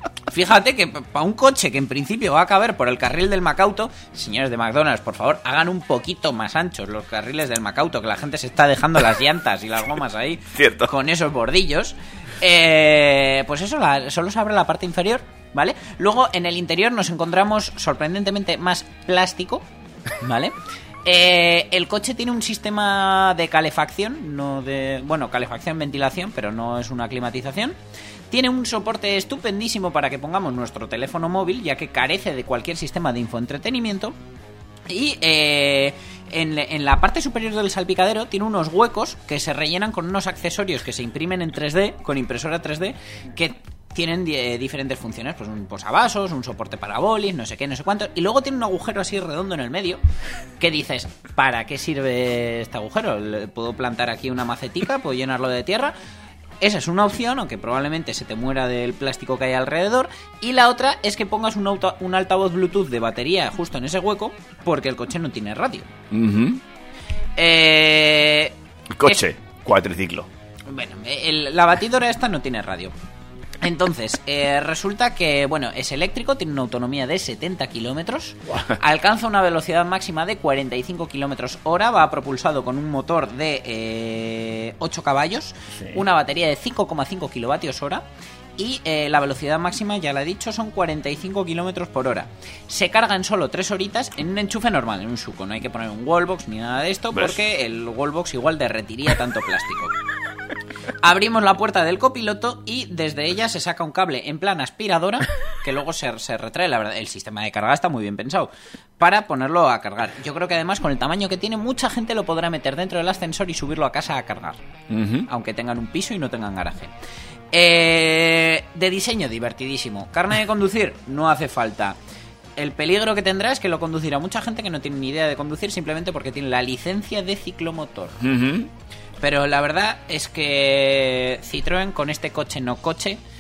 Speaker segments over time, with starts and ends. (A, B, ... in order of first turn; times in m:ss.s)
0:00.3-0:19.6 A
0:10.6-0:10.9 B
0:20.2-0:20.6 A
0:21.1-0:27.8 A
0:28.3-0:34.2 A
0:34.9-0:50.0 A
0:50.6-0:55.9 A
0:56.6-1:05.9 A
1:06.1-1:06.6 B
1:07.4-1:09.2 A
1:09.0-1:10.3 B
1:10.7-1:13.0 A
1:13.6-1:28.0 A
1:25.8-1:26.0 B
1:28.6-1:39.9 A
1:41.0-1:54.6 A
1:54.9-1:55.3 B
1:55.3-1:56.9 A
1:57.5-2:02.0 A
2:02.6-2:08.2 A
2:08.2-2:08.7 B
2:09.2-2:13.2 A